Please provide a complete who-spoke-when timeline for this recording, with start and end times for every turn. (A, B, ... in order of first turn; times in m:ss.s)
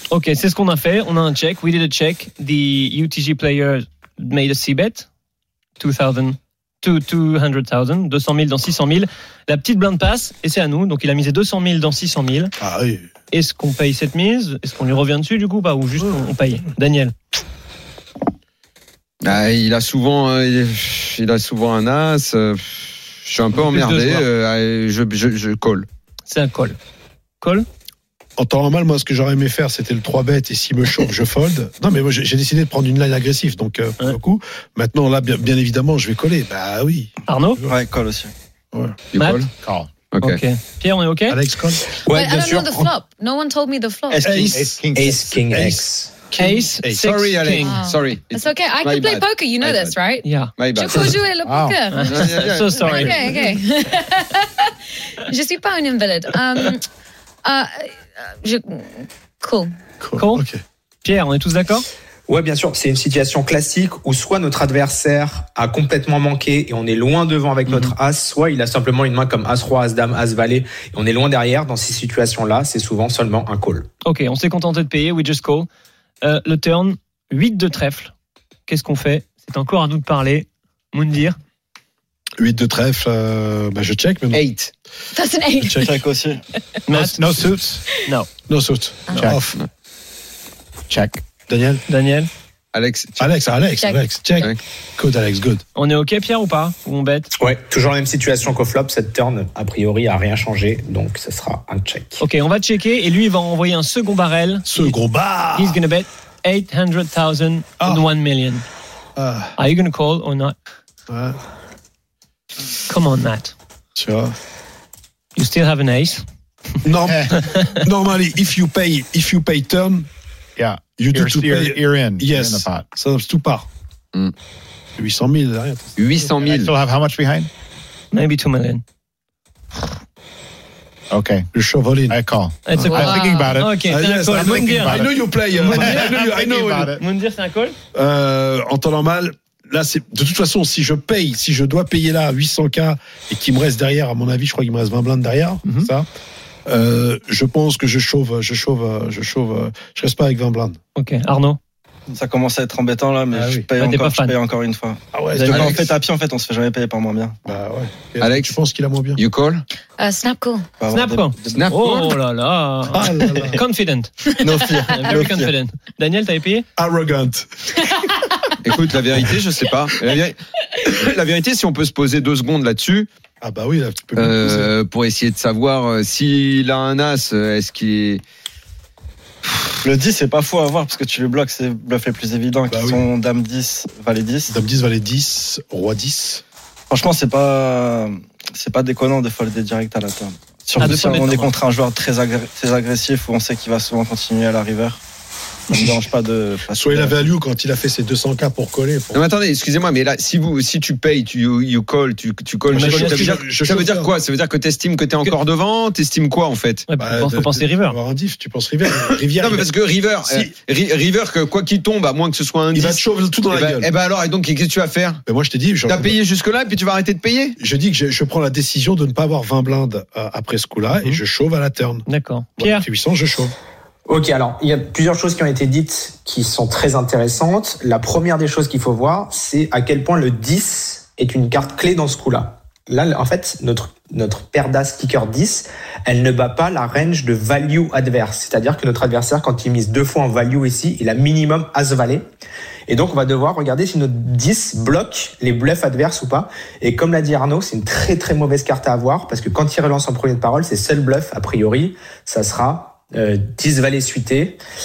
0:00.1-0:05.1 A
0:05.8-0:12.5 A
0:12.6-0:13.1 B
0:13.3-0:17.1 A
0:19.2-0:25.9 C
0:23.5-0:24.3 A
0:26.3-0:26.8 A
0:28.4-0:37.8 B
0:37.3-0:37.6 A
0:37.7-0:38.3 D
0:39.1-0:39.5 C
0:39.2-0:39.4 A
0:39.6-0:39.9 E
0:40.1-0:40.4 C
0:40.2-0:41.4 A
0:41.3-0:41.8 B
0:42.0-0:42.9 F
0:42.1-0:44.2 G
0:44.1-0:44.5 D
0:44.2-0:47.1 B
0:44.5-0:45.2 E
0:44.9-0:46.2 F
0:46.4-0:47.8 A
0:46.9-0:50.0 C
0:47.6-0:52.4 G
0:50.2-0:50.5 A
0:50.5-0:51.3 C
0:51.4-0:51.8 E
0:51.9-0:53.5 A
0:52.1-0:53.4 C
0:53.1-0:56.9 G
0:57.4-0:59.7 G
1:00.0-1:00.6 B
1:00.2-1:00.4 A
1:01.0-1:01.8 A
1:02.3-1:13.9 F
1:14.0-1:15.7 A
1:16.2-1:18.1 A
1:18.7-1:21.4 A
1:22.4-1:24.4 B
1:24.3-1:24.7 C
1:25.1-1:26.0 G
1:25.6-1:26.0 B
1:25.8-1:26.4 D
1:26.9-1:27.5 A
1:27.0-1:27.8 E
1:28.5-1:29.6 B
1:29.2-1:29.4 E
1:30.9-1:31.2 E
1:31.5-1:31.8 B
1:31.9-1:32.3 A
1:32.7-1:33.3 C
1:33.2-1:35.6 B
1:33.8-1:34.0 G
1:35.7-1:37.3 A
1:37.4-1:42.2 F
1:42.2-1:44.9 A
1:44.7-1:45.8 B
1:45.5-1:48.6 A
1:49.2-1:49.5 B
1:49.6-1:50.6 A
1:51.1-1:51.4 B
1:52.9-1:53.5 A
1:54.0-1:54.3 B
1:55.4-1:56.2 A
1:56.8-2:00.1 B
2:00.6-2:02.8 E
2:01.0-2:03.7 B
2:05.0-2:06.5 B
2:06.0-2:06.7 C
2:06.5-2:07.5 E
2:08.1-2:08.8 A
2:11.1-2:11.5 E
2:11.5-2:12.2 B
2:12.1-2:13.8 E
2:12.7-2:15.1 A
2:12.8-2:13.0 B
2:12.9-2:13.3 G
2:13.8-2:16.9 B
2:14.3-2:17.0 E
2:15.6-2:16.3 A
2:17.0-2:17.8 A
2:17.9-2:25.6 B
2:25.8-2:26.1 E
2:26.7-2:30.8 B
2:30.9-2:31.6 A
2:32.2-2:37.4 D
2:33.3-2:33.8 B
2:33.8-2:34.4 A
2:35.1-2:36.0 B
2:35.5-2:35.9 C
2:37.4-2:39.2 B
2:38.2-2:38.6 C
2:39.2-2:39.6 C
2:40.0-2:40.5 G
2:40.8-2:41.7 D
2:40.9-2:44.1 A
2:41.5-2:42.2 C
2:42.9-2:43.6 B
2:44.4-2:45.5 D
2:44.9-2:46.7 A
2:46.8-2:47.5 B
2:48.6-2:53.1 C
2:53.4-2:54.7 B
2:54.2-2:58.2 C
2:59.8-3:04.5 D
3:02.7-3:03.1 B
3:04.5-3:06.4 B
3:06.9-3:15.0 D
3:10.8-3:11.5 A
3:15.7-3:16.0 B
3:15.7-3:17.2 D
3:16.7-3:19.2 B
3:19.1-3:26.9 C
3:22.7-3:23.3 A
3:22.7-3:24.1 B
3:26.9-3:28.0 A
3:27.0-3:30.5 B
3:29.4-3:35.2 C
3:32.7-3:33.9 B
3:35.3-3:36.2 B
3:35.8-3:37.6 C
3:37.6-3:42.0 B
3:42.1-3:42.8 A
3:42.6-3:43.5 B
3:44.1-4:02.2 F
4:02.9-4:14.6 F